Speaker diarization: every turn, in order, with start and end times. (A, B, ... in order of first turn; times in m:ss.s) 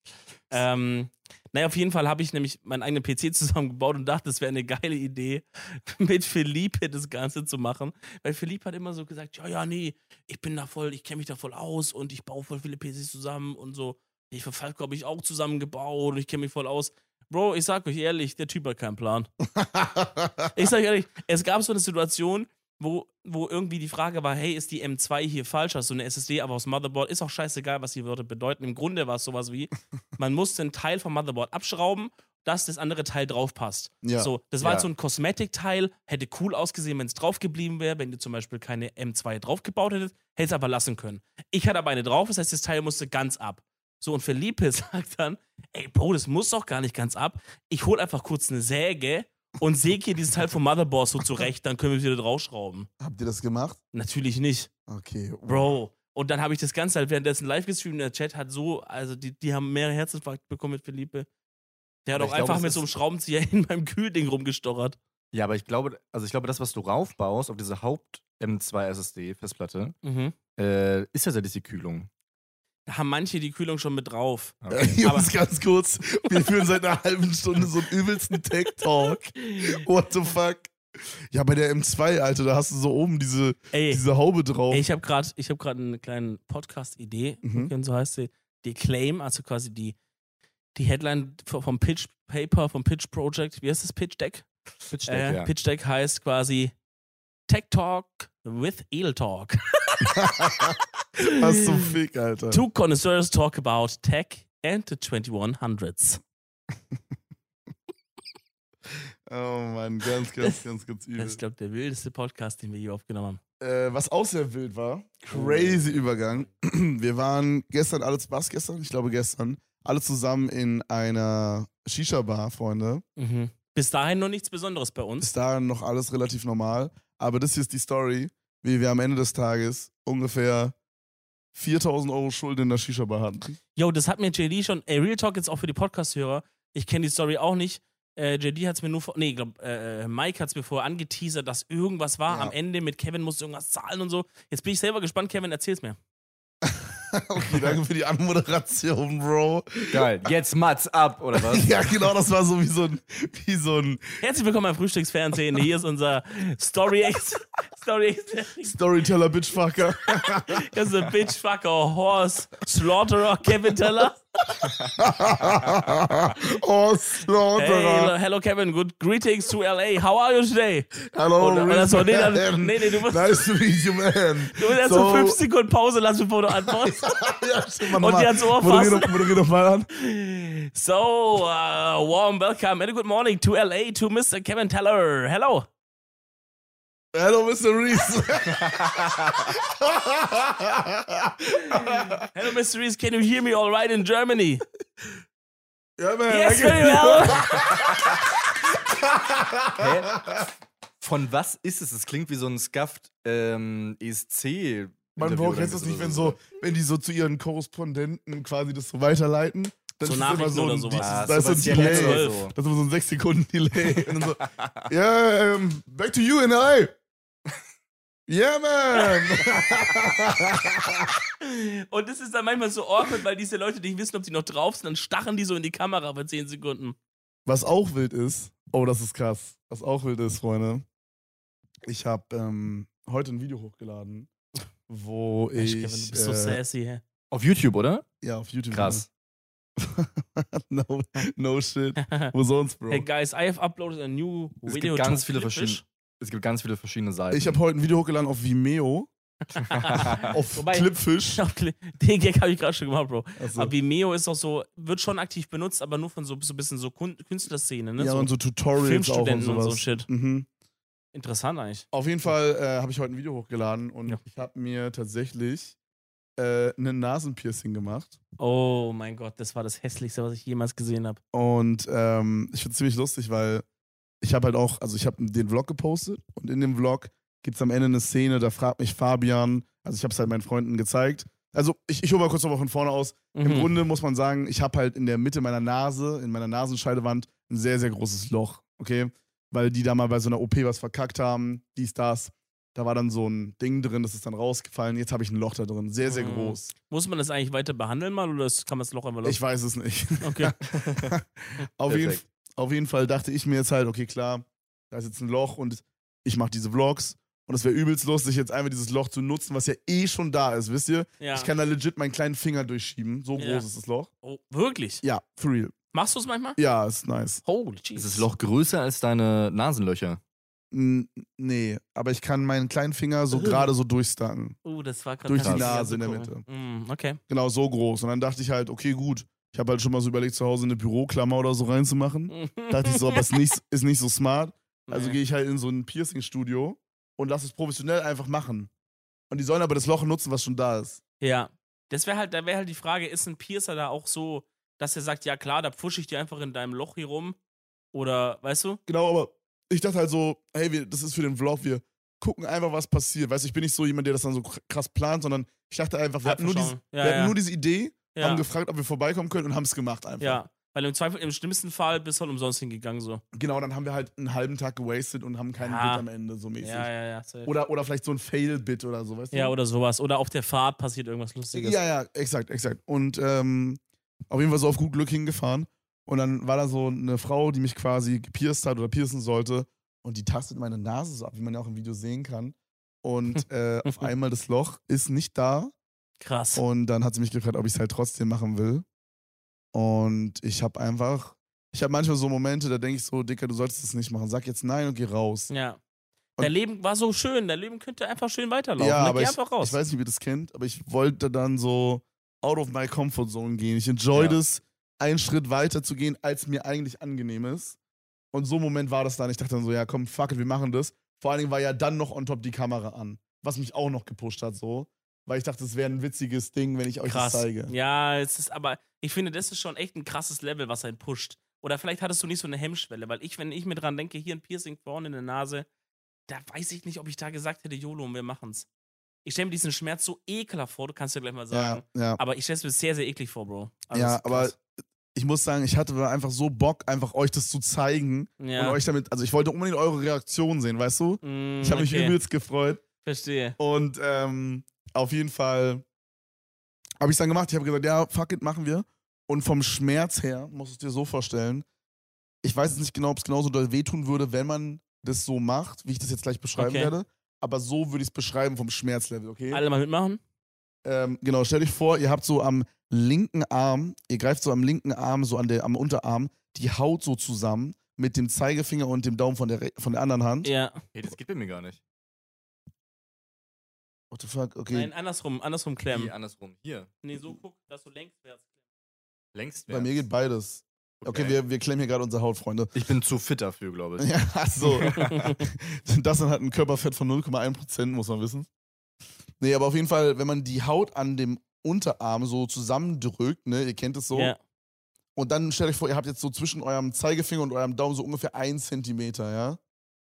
0:00.5-0:19.3 A
0:19.6-0:20.5 B
0:20.5-0:52.9 A
0:34.0-0:34.3 B
0:34.6-0:34.9 C
0:53.0-0:53.8 B
0:53.9-0:54.7 A
0:54.9-0:55.8 B
0:55.5-1:01.3 A
1:02.1-1:05.0 A
1:02.2-1:02.8 C
1:05.3-1:10.0 C
1:10.0-1:10.4 A
1:10.6-1:12.1 C
1:12.9-1:15.3 A
1:14.6-1:15.0 C
1:14.7-1:24.8 B
1:19.4-1:19.8 A
1:23.7-1:24.0 A
1:24.7-1:30.0 A
1:27.4-1:27.7 B
1:30.8-1:34.5 A
1:34.9-1:35.5 C
1:35.1-1:36.7 A
1:37.5-1:41.9 A
1:40.0-1:42.6 B
1:42.5-1:46.2 A
1:49.3-1:51.4 B
1:51.2-1:53.4 A
1:53.6-2:03.0 B
1:55.3-1:55.9 A
2:03.2-2:05.3 A
2:05.2-2:10.8 B
2:11.5-2:13.6 B
2:13.8-2:26.0 A
2:22.3-2:22.5 B
2:26.7-2:30.1 B
2:29.9-2:31.7 C
2:31.4-2:34.2 B
2:34.2-2:38.8 A
2:38.6-2:40.7 B
2:40.5-2:44.2 A
2:44.6-2:48.1 B
2:47.6-2:53.4 A
2:51.1-2:55.4 B
2:54.6-2:59.4 A
2:56.7-2:59.9 B
2:59.9-3:05.7 A
3:07.1-3:12.3 B
3:08.6-3:09.4 C
3:11.9-3:14.6 A
3:16.0-3:20.5 B
3:16.3-3:17.6 A
3:19.8-3:20.4 C
3:21.0-3:26.4 C
3:25.2-3:36.9 B
3:30.0-3:32.5 A
3:31.0-3:32.5 C
3:34.0-3:34.8 C
3:38.3-3:41.2 B
3:41.4-3:47.0 A
3:47.5-3:50.8 B
3:51.9-3:54.3 B
3:54.9-3:56.6 B
3:55.6-3:57.0 A
3:57.3-3:58.1 C
3:58.2-3:59.1 B
3:58.7-3:59.1 C
3:59.8-4:03.1 B
4:02.0-4:02.3 A
4:02.9-4:05.8 A
4:04.7-4:07.6 C
4:07.3-4:09.1 B
4:09.6-4:10.3 C
4:09.6-4:20.1 A
4:10.2-4:11.4 B
4:13.4-4:13.7 B
4:18.0-4:20.5 B
4:21.1-4:21.9 A
4:21.9-4:25.8 B
4:26.4-4:28.2 B
4:28.4-4:31.2 A
4:31.3-4:33.6 B
4:34.2-4:56.7 B
4:43.3-4:43.7 A
4:56.0-4:59.4 A
4:59.2-5:14.1 B
5:00.2-5:00.6 A
5:00.7-5:01.1 C
5:01.9-5:02.2 C
5:11.2-5:11.5 A
5:13.4-5:13.7 A
5:14.2-5:15.0 A
5:15.0-5:15.7 B
5:15.9-5:16.6 A
5:16.6-5:17.4 B
5:17.4-5:18.3 A
5:18.0-5:20.2 C
5:20.7-5:24.6 B
5:23.3-5:23.7 A
5:24.6-5:27.2 A
5:25.3-5:26.4 B
5:25.4-5:25.7 C
5:27.3-5:38.7 B
5:32.3-5:33.4 A
5:34.9-5:35.2 A
5:39.3-5:41.0 B
5:41.2-5:47.4 A
5:47.9-5:48.8 A
5:48.9-6:00.4 B
5:56.2-5:57.4 A
5:58.2-5:58.4 A
6:00.2-6:03.2 A
6:03.3-6:06.9 B
6:05.6-6:06.0 A
6:06.6-6:07.5 A
6:07.4-6:09.6 B
6:09.3-6:11.8 A
6:11.5-6:25.7 B
6:26.2-6:26.6 A
6:26.6-6:28.9 B
6:29.7-6:35.5 B
6:35.5-6:35.8 A
6:36.4-6:39.8 A
6:38.8-6:47.8 B
6:44.1-6:44.4 C
6:48.3-6:57.7 B
6:57.0-7:05.7 A
7:06.3-7:08.7 A
7:09.2-7:14.6 A
7:11.5-7:12.2 B
7:13.9-7:14.6 B
7:15.1-7:22.8 B
7:18.4-7:18.8 A
7:21.2-7:22.2 A
7:23.0-7:23.6 A
7:23.6-7:25.8 B
7:27.0-7:31.7 B
7:32.4-7:39.6 B
7:36.6-7:36.9 A
7:39.5-7:40.2 A
7:40.8-7:50.5 B
7:50.4-7:50.8 A
7:50.9-7:51.8 C
7:54.1-7:54.9 B
7:54.7-7:56.1 A
7:55.9-7:56.9 C
7:57.0-7:58.4 A
7:59.3-8:00.0 C
7:59.7-8:02.8 B
8:01.0-8:01.4 C
8:02.7-8:04.1 C
8:04.0-8:08.5 B
8:04.6-8:05.3 C
8:05.0-8:05.4 A
8:09.4-8:14.3 B
8:15.2-8:19.6 B